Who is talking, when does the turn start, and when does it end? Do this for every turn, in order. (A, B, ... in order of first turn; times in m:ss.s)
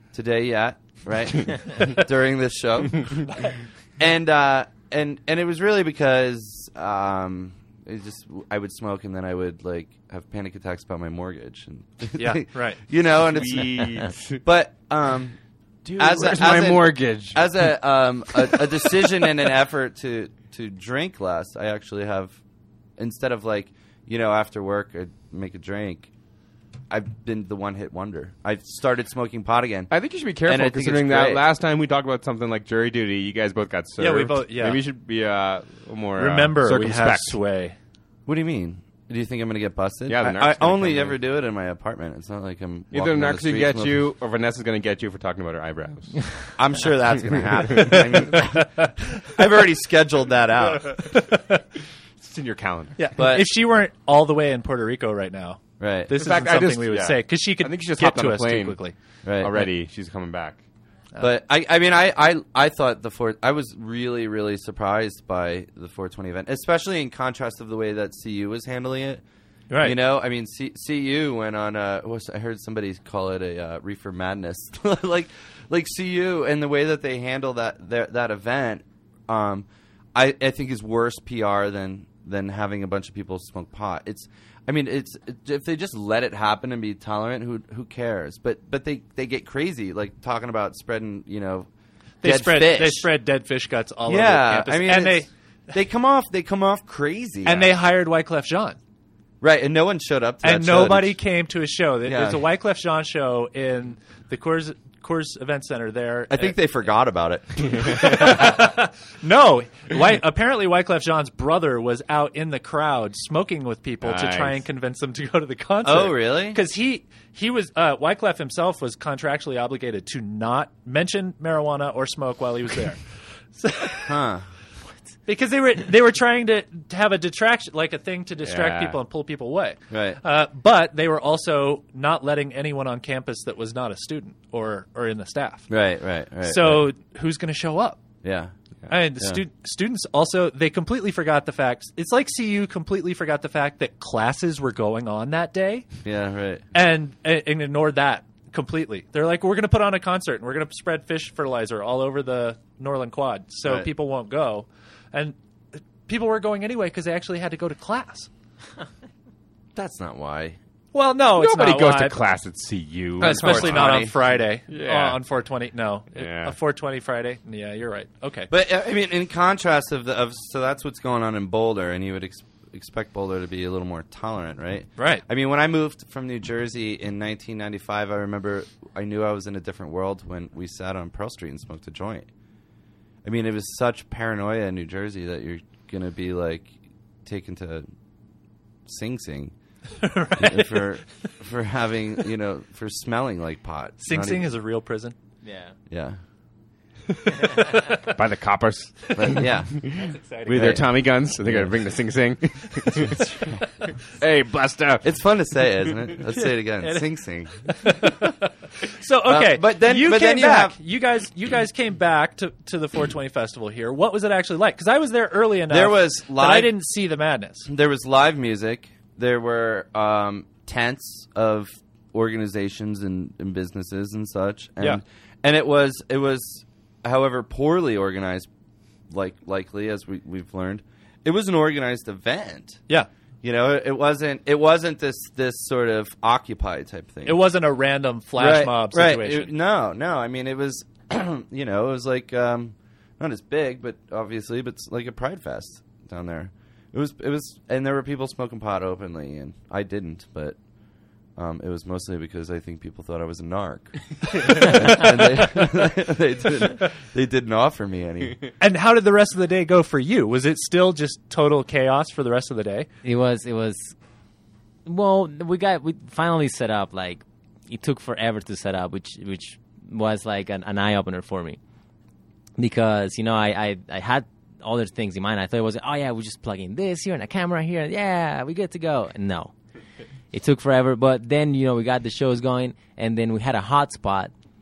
0:00.1-0:15.4 A
0:12.2-0:12.8 B
0:13.3-0:14.4 C
0:15.8-0:17.7 C
0:16.0-0:22.4 A
0:23.0-0:26.1 A
0:26.9-0:29.9 A
0:29.9-0:37.4 C
0:30.4-0:31.4 A
0:34.0-0:34.8 B
0:36.2-0:37.8 B
0:38.3-0:44.0 A
0:40.1-0:41.2 C
0:42.9-0:46.4 C
0:46.6-0:51.1 A
0:47.7-0:48.0 C
0:48.4-0:48.9 B
0:51.1-0:51.6 B
0:52.2-0:53.0 C
0:53.0-0:58.9 B
0:53.2-0:53.5 A
0:55.8-0:56.1 A
0:56.1-0:58.8 C
0:59.2-0:59.5 A
0:59.4-1:00.6 C
1:01.2-1:09.2 A
1:09.7-1:09.9 B
1:09.8-1:31.7 A
1:32.2-1:35.3 B
1:32.2-1:33.1 A
1:34.0-1:37.7 A
1:37.4-1:38.8 B
1:39.4-1:41.2 A
1:40.4-1:46.5 B
1:42.0-1:42.4 A
1:46.3-1:48.5 A
1:47.8-2:03.0 B
1:54.0-1:54.6 C
1:55.8-1:56.6 A
2:03.5-2:04.2 B
2:04.0-2:04.4 A
2:05.2-2:15.7 B
2:08.4-2:09.0 C
2:09.9-2:10.2 A
2:15.7-2:16.8 A
2:16.4-2:18.0 B
2:18.2-2:18.5 A
2:18.9-2:25.9 B
2:26.0-2:26.6 A
2:26.7-2:35.3 B
2:36.0-2:38.3 B
2:39.7-2:40.6 A
2:40.9-2:42.2 B
2:41.3-2:44.0 C
2:43.2-2:48.5 B
2:43.2-2:44.2 A
2:44.7-2:45.2 C
2:46.1-2:46.5 C
2:48.5-3:02.3 A
2:55.0-2:55.2 B
3:03.2-3:06.7 A
3:07.2-3:07.9 A
3:08.8-3:09.5 A
3:10.0-3:11.3 B
3:10.4-3:14.5 A
3:14.0-3:15.1 B
3:15.4-3:15.7 D
3:15.9-3:16.2 A
3:18.1-3:23.3 C
3:19.1-3:19.4 B
3:19.1-3:19.8 A
3:19.9-3:20.8 B
3:20.5-3:21.2 A
3:24.0-3:25.0 C
3:25.0-3:28.1 A
3:26.3-3:27.1 B
3:27.6-3:37.7 B
3:29.3-3:30.8 A
3:35.7-3:36.8 A
3:37.7-3:48.5 A
3:49.1-3:52.8 A
3:53.4-3:57.4 A
3:57.2-3:59.5 B
3:58.4-4:10.6 A
4:11.4-4:18.5 A
4:18.6-4:22.9 B
4:23.0-4:23.9 D
4:24.8-4:31.6 D
4:32.6-4:39.5 D
4:40.3-4:44.3 D